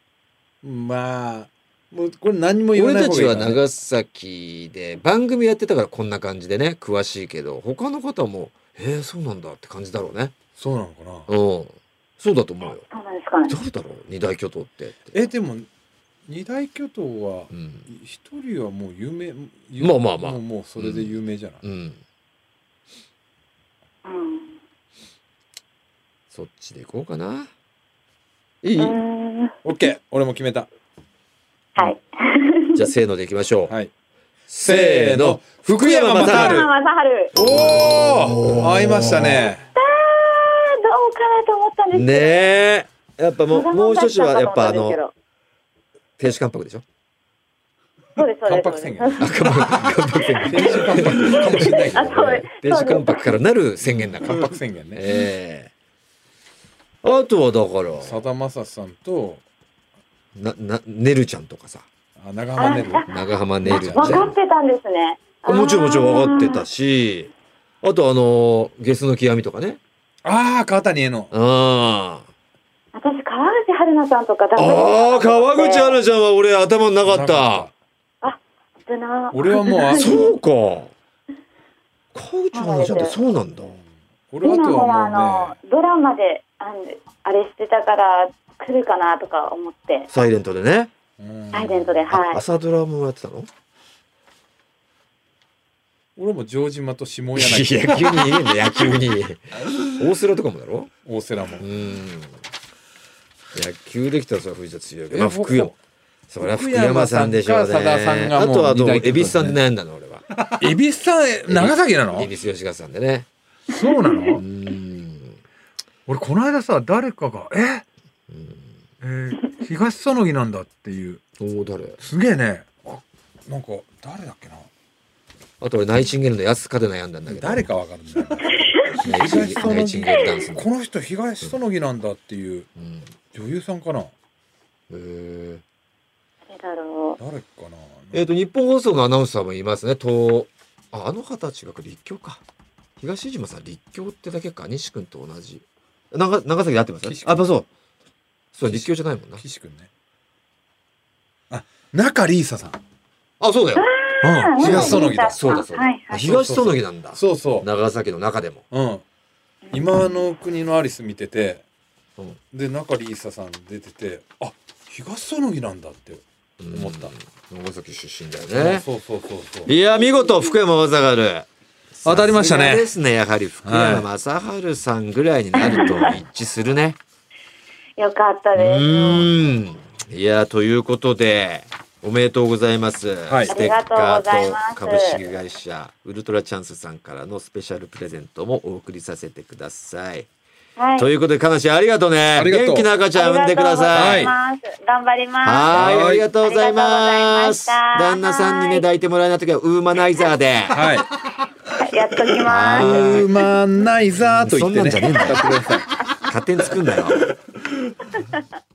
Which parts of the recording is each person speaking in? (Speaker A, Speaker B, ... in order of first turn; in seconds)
Speaker A: 0.6-3.6, 10.6-11.3, 15.1-15.7, 16.2-21.6, 29.6-30.7, 34.6-36.7, 37.3-39.7, 48.4-49.9, 50.4-52.4, 53.8-55.0, 58.0-59.4, 62.2-63.1, 63.6-64.3, 70.2-71.3, 77.0-77.7, 79.3-80.3, 83.7-85.6, 91.2-92.0, 96.2-98.3, 101.0-101.7, 105.1-105.7, 106.4-109.6, 110.5-112.3, 113.7-114.4, 116.1-117.8, 119.0-121.2, 122.0-124.7, 127.3-132.7, 133.3-134.1, 137.2-138.2, 147.1-147.5, 148.7-149.9, 151.5-152.8, 154.2-155.4, 156.2-157.7, 158.7-159.0, 159.7-161.6, 162.5-167.1, 168.5-169.7, 172.0-172.9, 173.6-174.1, 183.3-183.5, 192.3-192.9, 193.9-194.3, 195.7-196.2, 200.7-201.1, 202.8-205.9
Speaker B: 2.7-10.3, 11.3-12.8, 13.5-15.2, 17.5-17.9, 19.8-22.0, 26.3-27.5, 28.6-29.0, 32.7-33.7, 34.5-36.7, 37.3-39.5, 41.9-45.0, 46.2-46.8, 49.2-55.7, 57.0-58.2, 60.3-61.9, 63.1-64.3, 65.5-69.8, 71.3-72.3, 74.5-77.7, 79.9-80.9, 82.1-83.8, 90.1-90.9, 92.1-93.5, 97.3-100.9, 101.6-102.4, 103.5-105.7, 106.3-110.4, 111.5-113.3, 114.3-115.4, 118.3-118.7, 121.4-122.0, 125.6-127.7, 129.0-130.7, 132.8-133.1, 134.9-135.6, 138.1-142.4, 143.0-147.7, 148.5-149.4, 153.4-153.9, 154.6-158.6, 166.6-168.8, 169.7-177.0, 178.6-190.3, 191.0-194.3, 195.4-200.9, 202.4-203.3, 204.2-205.5, 206.2-207.3
Speaker C: 12.9-13.6, 24.0-24.5, 28.8-29.5, 31.8-32.8, 36.2-37.3, 39.8-42.5, 43.5-45.1, 48.1-49.9, 50.7-53.3, 62.6-66.6, 72.9-76.0, 78.2-80.3, 82.5-83.1, 84.4-90.1, 91.5-92.4, 136.5-137.2, 153.8-156.3, 159.7-159.9, 175.6-176.1, 178.0-179.3, 183.5-185.2, 190.8-191.1, 193.1-198.8, 201.8-203.3